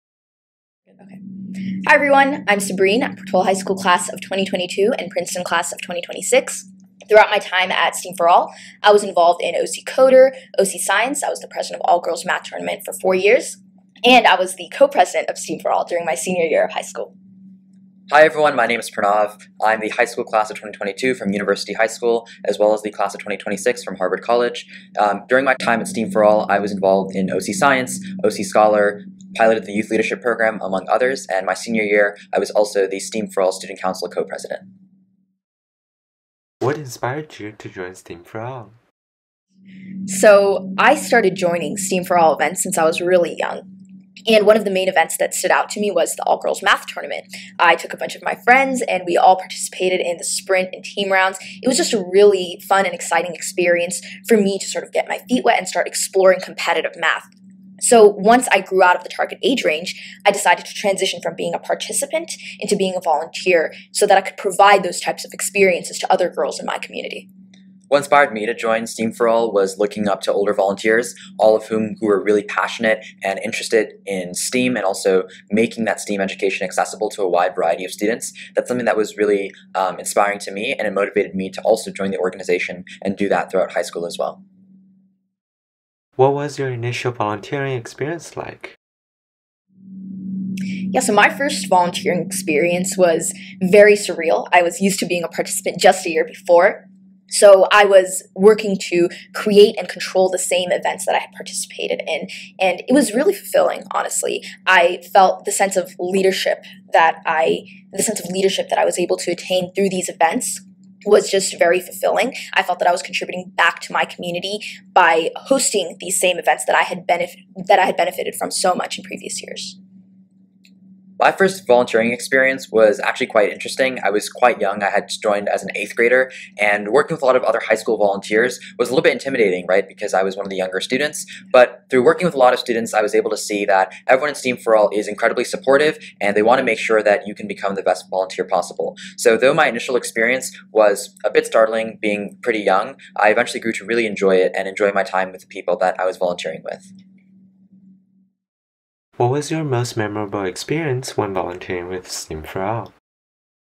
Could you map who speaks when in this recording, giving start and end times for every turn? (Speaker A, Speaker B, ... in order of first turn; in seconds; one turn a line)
Speaker A: 1.7-17.1
Speaker B: 18.1-34.6
Speaker C: 36.6-38.8
Speaker A: 40.1-43.6
Speaker A: 44.3-67.3
Speaker B: 67.9-84.4
Speaker C: 86.2-88.8
Speaker A: 90.9-119.8
Speaker B: 121.2-146.9
Speaker C: 149.2-152.9